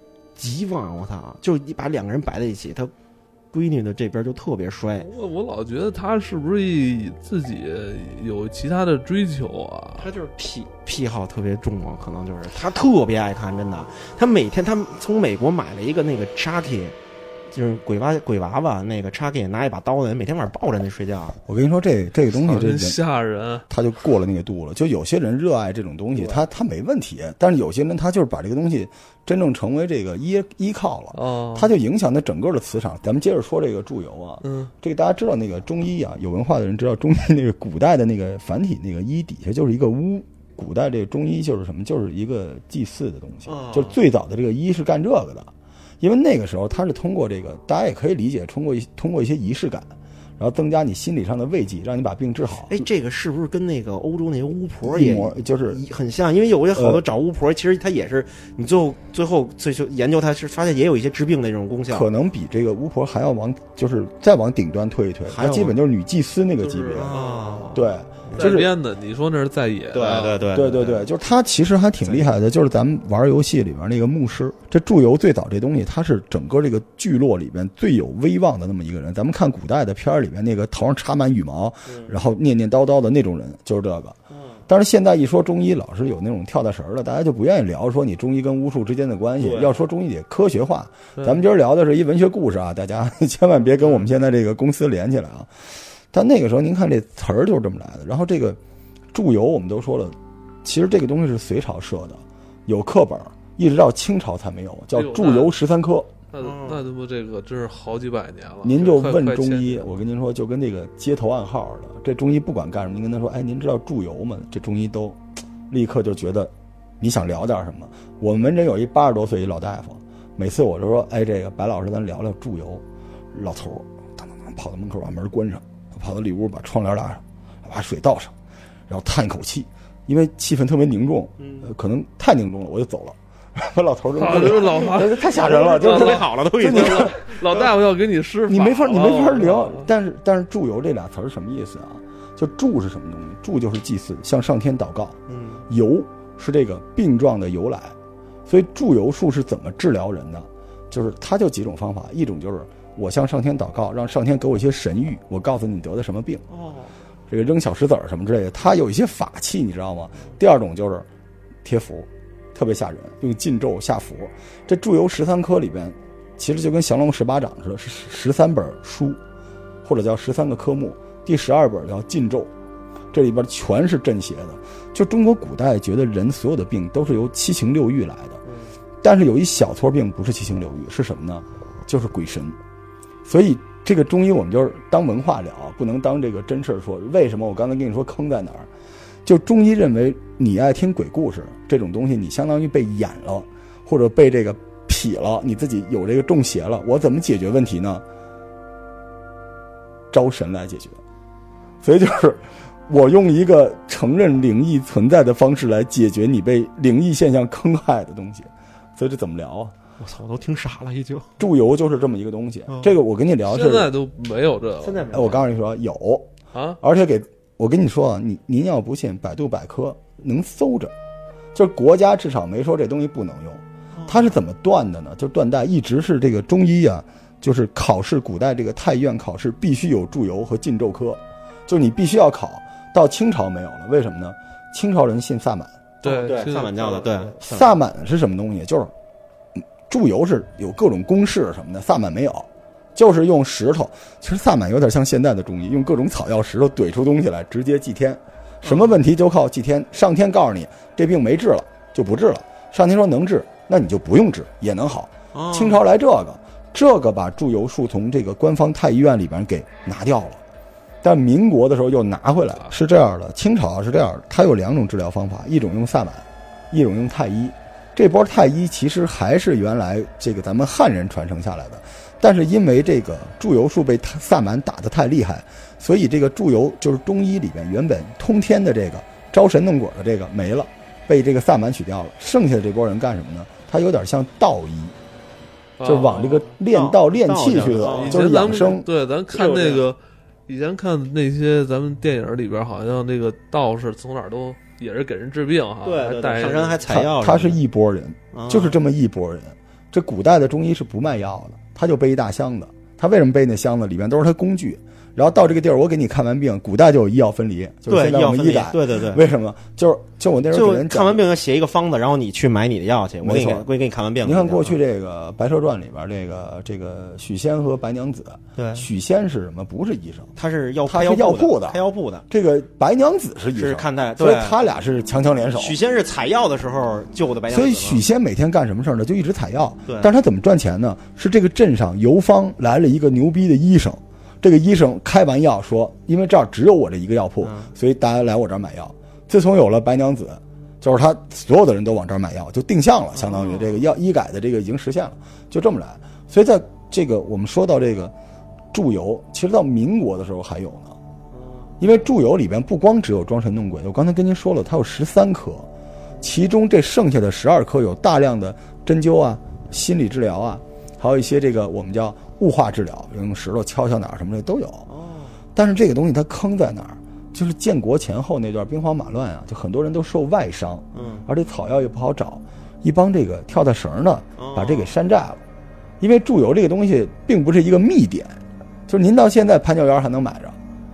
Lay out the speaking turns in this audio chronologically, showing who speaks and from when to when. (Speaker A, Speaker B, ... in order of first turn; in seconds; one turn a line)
Speaker A: 0.3-2.9
Speaker A: 3.5-5.1
Speaker B: 5.0-10.1
Speaker A: 10.0-16.9
Speaker A: 17.5-21.4
Speaker C: 21.5-23.0
Speaker B: 22.3-23.6
Speaker C: 23.7-52.8
Speaker A: 26.2-26.4
Speaker B: 31.1-31.7
Speaker B: 34.4-34.7
Speaker A: 43.4-44.0
Speaker A: 52.6-62.1
Speaker C: 54.9-55.8
Speaker C: 56.7-57.0
Speaker C: 61.9-67.1
Speaker A: 65.3-65.8
Speaker B: 66.6-67.8
Speaker A: 67.0-68.5
Speaker C: 67.7-68.7
Speaker B: 68.3-70.4
Speaker A: 69.9-71.1
Speaker C: 70.5-84.2
Speaker A: 81.8-82.1
Speaker A: 84.3-84.6
Speaker C: 84.7-98.6
Speaker A: 89.4-89.8
Speaker B: 91.2-91.4
Speaker C: 99.1-106.1
Speaker B: 104.9-105.5
Speaker B: 106.3-109.9
Speaker A: 106.4-106.8
Speaker C: 108.6-128.3
Speaker C: 128.9-137.2
Speaker A: 131.4-131.7
Speaker B: 134.1-139.9
Speaker A: 135.5-137.7
Speaker C: 138.5-147.9
Speaker A: 145.3-145.7
Speaker C: 148.5-156.4
Speaker A: 156.5-156.9
Speaker C: 157.3-161.1
Speaker C: 161.6-169.2
Speaker C: 169.8-172.5
Speaker C: 173.1-178.4
Speaker A: 178.4-178.7
Speaker C: 179.0-182.6
Speaker C: 183.2-188.7
Speaker C: 189.2-198.0
Speaker C: 200.1-201.0
Speaker C: 201.8-209.7
Speaker A: 210.0-211.4
Speaker C: 211.4-213.9
Speaker A: 212.7-212.9
Speaker B: 213.5-215.1
Speaker A: 214.8-215.4
Speaker C: 215.1-216.3
Speaker B: 216.5-216.8
Speaker C: 216.8-220.9
Speaker C: 221.5-235.8
Speaker A: 223.9-224.3
Speaker B: 236.0-237.2
Speaker A: 236.0-237.8
Speaker C: 237.4-238.9
Speaker C: 239.9-260.4
Speaker A: 248.6-249.0
Speaker A: 255.3-255.8
Speaker C: 261.0-284.9
Speaker B: 285.8-286.4
Speaker C: 285.8-288.9
Speaker A: 286.2-288.4
Speaker B: 287.9-296.8
Speaker A: 289.3-289.9
Speaker A: 295.8-297.6
Speaker C: 296.9-311.2
Speaker A: 298.3-298.8
Speaker A: 307.9-309.2
Speaker A: 310.5-314.8
Speaker C: 313.2-313.7
Speaker C: 314.2-320.3
Speaker A: 318.6-318.9
Speaker A: 320.4-322.2
Speaker C: 320.9-325.8
Speaker A: 323.5-324.6
Speaker A: 325.6-328.0
Speaker C: 327.5-348.1
Speaker A: 329.9-330.1
Speaker A: 337.4-337.7
Speaker A: 343.1-343.8
Speaker C: 348.7-351.0
Speaker A: 351.3-351.8
Speaker C: 351.8-355.7
Speaker C: 356.2-364.9
Speaker A: 364.9-365.4
Speaker C: 365.5-375.4
Speaker A: 370.9-371.3
Speaker A: 374.4-374.9
Speaker C: 376.0-380.6